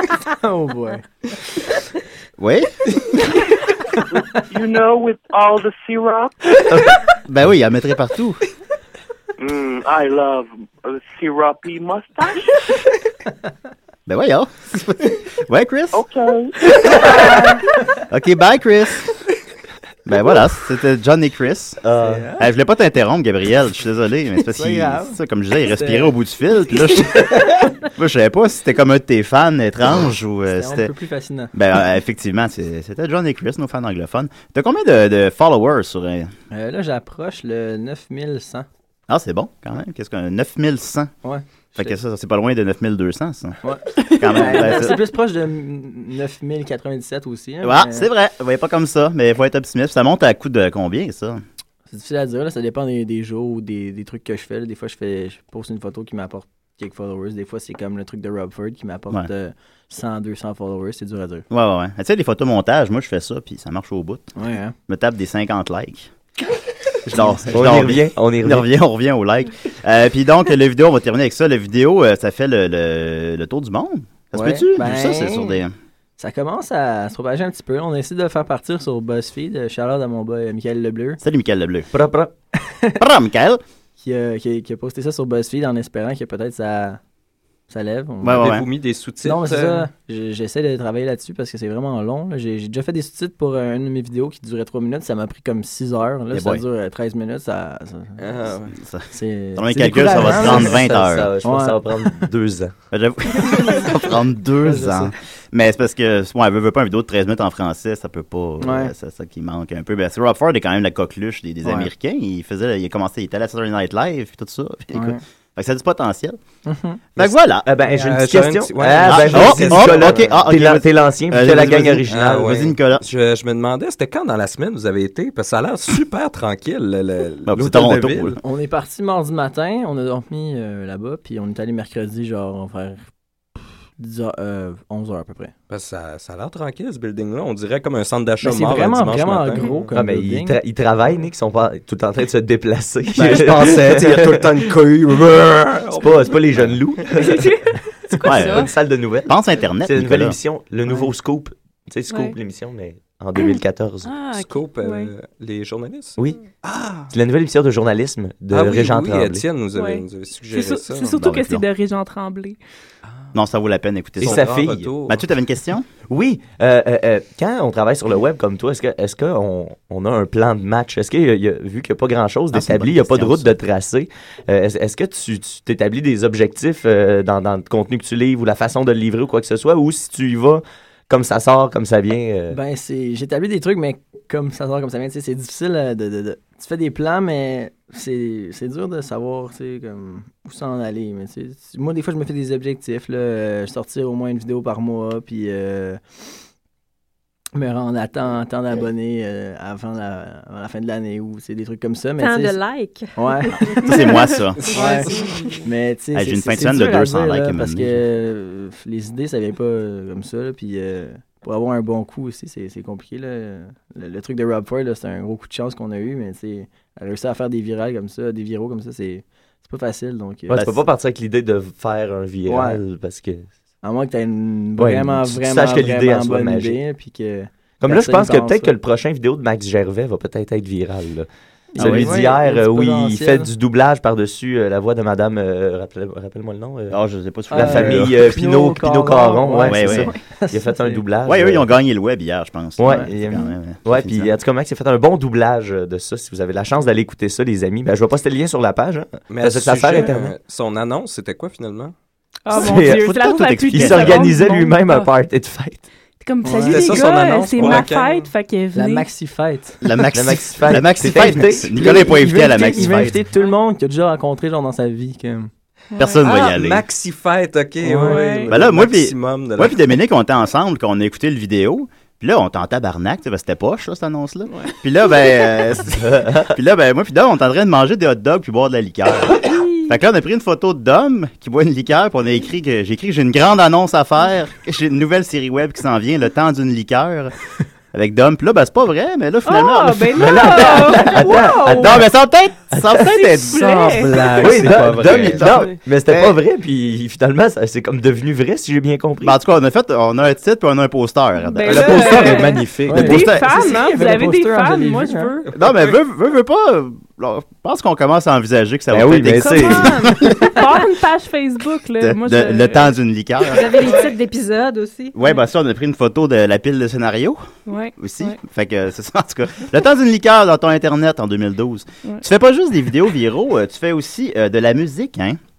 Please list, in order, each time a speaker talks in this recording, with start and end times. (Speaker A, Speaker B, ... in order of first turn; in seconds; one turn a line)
Speaker A: 0.1-1.1
Speaker B: 2.4-2.9
Speaker C: 4.2-6.5
Speaker B: 7.3-8.4
Speaker C: 9.4-12.5
Speaker B: 14.1-16.0
Speaker C: 15.9-16.6
Speaker A: 17.2-17.5
Speaker B: 18.1-19.1
Speaker B: 20.1-21.8
Speaker D: 21.8-22.3
Speaker A: 22.0-22.4
Speaker B: 22.4-30.9
Speaker A: 24.5-26.1
Speaker A: 30.5-31.5
Speaker B: 31.5-36.3
Speaker A: 36.5-38.7
Speaker B: 39.1-41.1
Speaker A: 41.2-41.9
Speaker B: 41.8-45.0
Speaker A: 43.6-48.1
Speaker B: 47.6-51.4
Speaker A: 51.9-61.5
Speaker B: 61.5-64.3
Speaker A: 64.4-64.8
Speaker B: 64.9-66.1
Speaker B: 67.1-75.7
Speaker A: 67.1-67.5
Speaker D: 67.5-68.7
Speaker A: 74.3-75.6
Speaker A: 76.2-81.2
Speaker B: 81.2-81.9
Speaker D: 81.9-82.3
Speaker A: 82.6-83.0
Speaker B: 83.0-83.6
Speaker A: 84.0-87.0
Speaker A: 87.7-88.5
Speaker B: 88.2-88.7
Speaker E: 88.3-89.9
Speaker A: 89.2-98.5
Speaker B: 96.3-96.6
Speaker E: 98.2-98.8
Speaker B: 98.8-101.3
Speaker A: 99.1-100.9
Speaker D: 100.1-102.8
Speaker A: 101.4-102.2
Speaker B: 102.9-116.4
Speaker A: 104.6-105.1
Speaker A: 108.6-108.9
Speaker A: 111.6-111.9
Speaker A: 114.9-115.2
Speaker A: 116.7-117.0
Speaker B: 117.2-117.7
Speaker D: 117.2-122.5
Speaker E: 117.9-120.4
Speaker B: 119.1-123.0
Speaker E: 122.1-128.3
Speaker B: 127.5-128.4
Speaker A: 128.4-133.1
Speaker A: 134.0-135.5
Speaker E: 135.7-139.9
Speaker A: 138.4-140.6
Speaker D: 139.9-144.7
Speaker E: 143.2-146.7
Speaker D: 146.0-147.6
Speaker F: 147.3-147.6
Speaker D: 148.1-154.2
Speaker B: 148.2-148.7
Speaker B: 149.2-150.4
Speaker F: 152.1-152.4
Speaker E: 154.3-157.1
Speaker F: 154.8-155.1
Speaker D: 157.1-159.5
Speaker E: 158.5-161.2
Speaker F: 159.7-162.6
Speaker B: 161.2-161.6
Speaker B: 163.3-165.9
Speaker E: 164.2-165.2
Speaker D: 164.2-164.9
Speaker D: 166.0-182.6
Speaker B: 172.5-173.5
Speaker A: 182.5-196.0
Speaker A: 197.6-202.6
Speaker G: 202.2-204.2
Speaker A: 203.2-203.7
Speaker B: 203.7-204.6
Speaker A: 204.7-220.8
Speaker B: 206.1-208.0
Speaker D: 220.5-223.5
Speaker A: 222.5-222.8
Speaker A: 223.8-228.8
Speaker D: 224.8-226.8
Speaker D: 227.8-237.0
Speaker A: 231.7-233.5
Speaker B: 231.8-232.2
Speaker B: 236.9-238.2
Speaker D: 237.5-241.7
Speaker A: 237.5-241.0
Speaker B: 239.7-240.1
Speaker B: 241.2-244.3
Speaker D: 242.8-250.3
Speaker E: 249.3-251.9
Speaker F: 252.5-255.1
Speaker D: 252.5-255.9
Speaker B: 252.6-254.3
Speaker F: 256.2-259.1
Speaker A: 256.4-257.0
Speaker E: 256.6-258.3
Speaker A: 258.7-259.8
Speaker B: 259.8-263.2
Speaker D: 260.1-262.0
Speaker A: 261.7-265.5
Speaker F: 265.9-266.2
Speaker B: 266.0-266.9
Speaker E: 266.2-269.8
Speaker A: 267.8-268.5
Speaker F: 268.0-268.5
Speaker B: 268.5-287.3
Speaker D: 276.0-276.6
Speaker B: 287.9-296.4
Speaker F: 289.4-292.1
Speaker D: 290.1-292.1
Speaker D: 292.7-293.2
Speaker F: 293.0-294.6
Speaker D: 293.9-299.4
Speaker E: 294.4-295.5
Speaker B: 299.2-302.4
Speaker F: 301.5-305.5
Speaker E: 301.7-303.1
Speaker D: 302.2-302.9
Speaker A: 302.9-305.3
Speaker B: 303.0-303.4
Speaker B: 305.6-310.6
Speaker E: 305.6-305.9
Speaker D: 308.9-310.1
Speaker F: 309.4-313.0
Speaker B: 312.0-313.9
Speaker G: 313.5-315.2
Speaker F: 313.8-314.1
Speaker B: 315.1-317.4
Speaker F: 317.7-318.4
Speaker B: 318.0-325.4